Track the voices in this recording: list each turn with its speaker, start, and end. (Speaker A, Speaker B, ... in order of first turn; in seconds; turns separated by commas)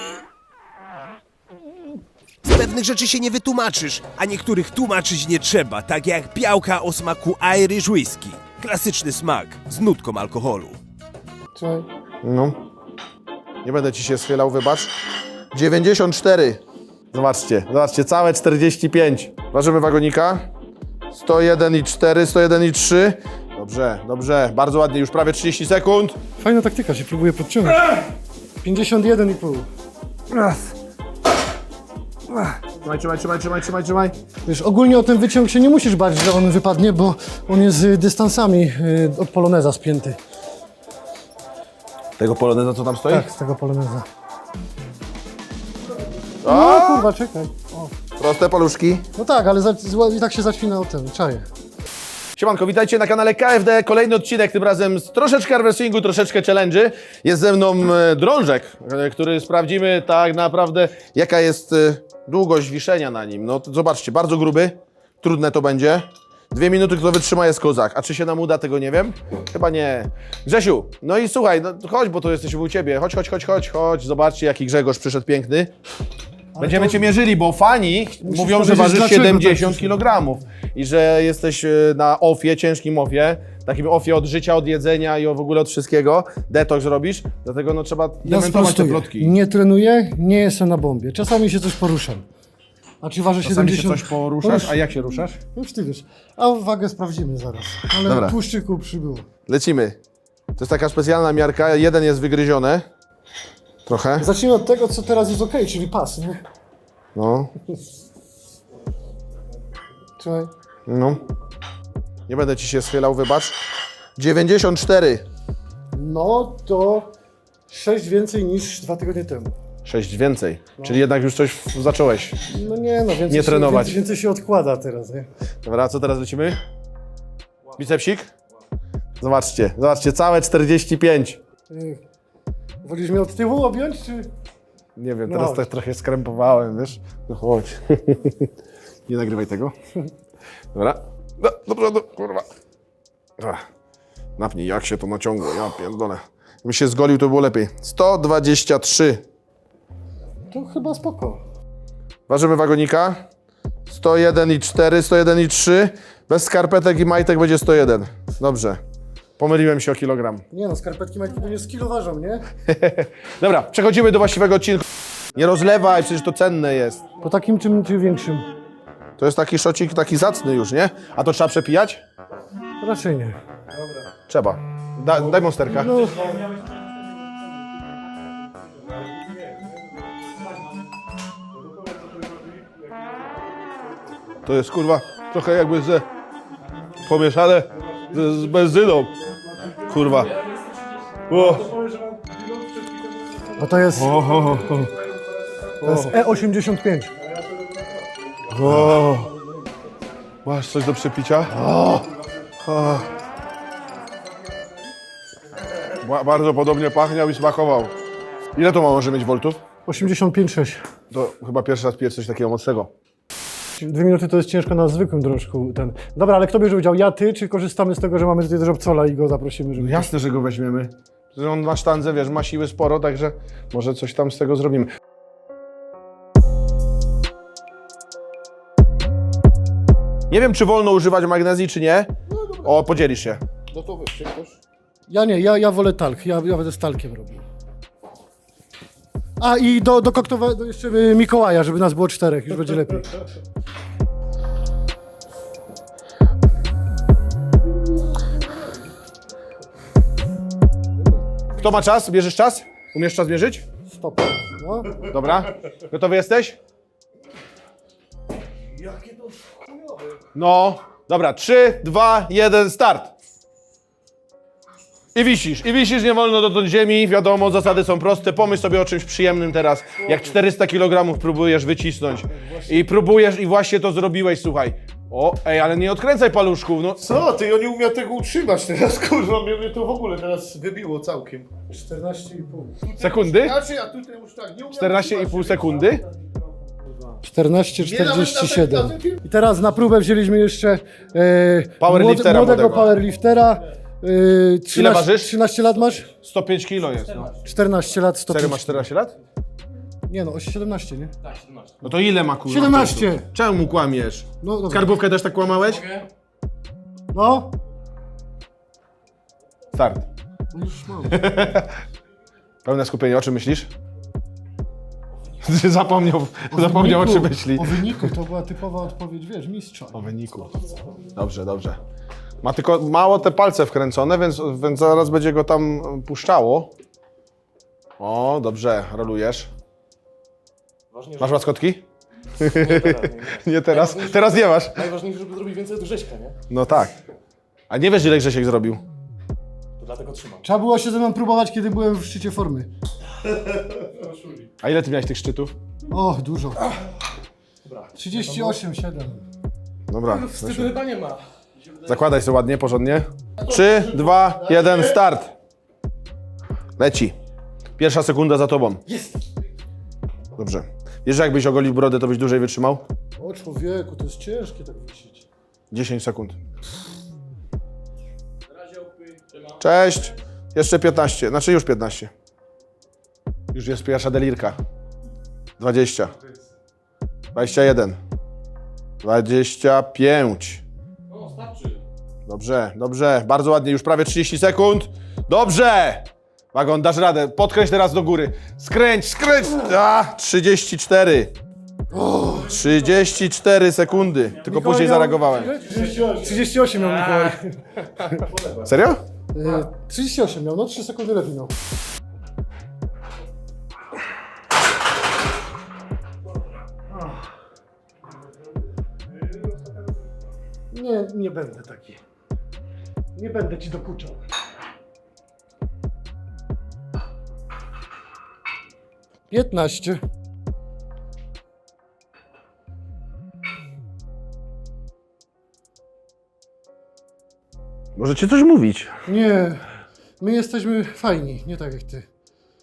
Speaker A: 2.5-10.8, Speaker B: 11.5-11.9, Speaker C: 12.2-12.6, Speaker C: 13.6-14.9, Speaker C: 15.5-16.6, Speaker C: 17.1-20.4, Speaker C: 21.1-26.2, Speaker B: 26.4-28.0, Speaker B: 28.6-29.7, Speaker C: 32.8-34.1, Speaker B: 34.5-40.2, Speaker C: 42.2-43.3, Speaker B: 43.1-44.0, Speaker C: 46.4-47.1, Speaker B: 46.4-47.9, Speaker C: 48.2-49.0, Speaker B: 49.1-51.5, Speaker C: 52.3-75.7, Speaker B: 76.5-77.1, Speaker C: 76.6-89.3, Speaker B: 78.2-79.9, Speaker B: 88.2-92.2, Speaker B: 93.0-94.8, Speaker C: 93.4-95.4, Speaker B: 95.5-99.3, Speaker C: 98.0-98.4, Speaker C: 99.5-100.0, Speaker C: 100.6-102.8, Speaker C: 103.8-104.3, Speaker B: 104.2-106.4, Speaker C: 107.1-107.5, Speaker B: 110.2-110.5, Speaker C: 110.9-111.2, Speaker C: 112.3-113.6, Speaker C: 114.2-115.2, Speaker B: 115.9-117.1, Speaker B: 117.7-119.5, Speaker C: 119.8-122.4, Speaker B: 122.5-125.3, Speaker C: 123.3-124.0, Speaker C: 125.6-126.6, Speaker C: 127.8-128.3, Speaker C: 129.2-131.4, Speaker B: 131.7-132.0, Speaker B: 132.8-134.3, Speaker C: 134.9-138.5, Speaker B: 135.3-135.7, Speaker C: 139.1-139.7, Speaker C: 140.7-142.4, Speaker C: 143.4-143.6, Speaker C: 144.4-149.2, Speaker B: 150.5-151.4, Speaker C: 152.3-153.2, Speaker C: 153.9-158.8, Speaker C: 159.4-160.4, Speaker B: 160.5-162.5, Speaker C: 162.7-167.0, Speaker B: 167.2-168.5, Speaker C: 169.2-172.0, Speaker B: 172.8-173.4, Speaker C: 174.3-176.2, Speaker B: 175.7-176.4, Speaker D: 181.8-182.6, Speaker C: 184.4-186.0, Speaker C: 187.0-189.2, Speaker C: 189.7-190.3, Speaker C: 191.3-191.8, Speaker D: 191.8-193.4, Speaker B: 193.5-194.2, Speaker C: 193.9-194.9, Speaker C: 195.8-196.2, Speaker B: 195.8-197.1, Speaker C: 198.5-199.3, Speaker C: 200.4-201.6, Speaker B: 201.5-202.1, Speaker C: 202.6-203.1, Speaker C: 205.9-207.9, Speaker C: 208.5-209.6, Speaker B: 209.8-210.8, Speaker C: 211.1-212.9, Speaker B: 213.8-220.1, Speaker C: 219.8-224.9, Speaker C: 230.3-234.6, Speaker B: 235.1-237.4, Speaker B: 239.4-243.1, Speaker C: 251.6-253.6, Speaker B: 253.9-255.1, Speaker C: 255.0-256.6, Speaker C: 260.3-263.1, Speaker C: 265.1-277.2, Speaker E: 277.1-281.4, Speaker C: 278.7-280.4, Speaker B: 281.6-282.9, Speaker C: 282.9-283.6, Speaker E: 283.6-284.8, Speaker C: 284.7-286.0, Speaker B: 287.2-296.1, Speaker C: 287.9-289.1, Speaker C: 291.8-293.0, Speaker C: 294.7-295.3, Speaker C: 296.1-297.3, Speaker B: 297.4-298.9, Speaker C: 298.3-299.2, Speaker B: 300.1-301.1, Speaker D: 301.3-301.7, Speaker C: 301.8-306.1, Speaker B: 302.5-303.3, Speaker B: 304.4-304.9, Speaker B: 307.1-307.5, Speaker C: 309.7-310.1, Speaker B: 310.5-311.5, Speaker C: 311.1-311.8, Speaker C: 312.6-313.7, Speaker C: 315.4-318.1, Speaker B: 316.5-320.0, Speaker C: 319.9-321.8, Speaker C: 322.4-326.7, Speaker C: 328.0-329.5, Speaker D: 330.9-331.3, Speaker C: 331.2-331.8, Speaker C: 332.4-334.9, Speaker D: 332.6-336.4, Speaker C: 336.5-336.9, Speaker C: 337.7-338.8, Speaker D: 339.8-340.4, Speaker B: 340.4-342.7, Speaker C: 344.6-345.5, Speaker B: 345.9-346.7, Speaker B: 347.9-349.2, Speaker C: 349.9-350.8, Speaker D: 350.1-351.2, Speaker C: 351.8-355.3, Speaker C: 356.8-357.1, Speaker C: 357.8-358.8, Speaker C: 360.4-362.8, Speaker B: 363.2-365.2, Speaker C: 365.7-366.4, Speaker D: 368.8-369.4, Speaker C: 369.6-372.1, Speaker C: 373.5-374.6, Speaker C: 375.6-376.1, Speaker C: 377.3-378.0, Speaker C: 379.0-380.6, Speaker D: 381.1-381.8, Speaker C: 382.3-391.3, Speaker B: 391.9-392.6, Speaker C: 392.4-395.6, Speaker B: 394.4-398.2, Speaker C: 398.4-399.0, Speaker B: 399.3-401.5, Speaker B: 410.7-412.0, Speaker B: 413.1-414.2, Speaker B: 419.3-420.0, Speaker C: 427.9-428.9, Speaker B: 429.1-429.6, Speaker B: 430.2-432.1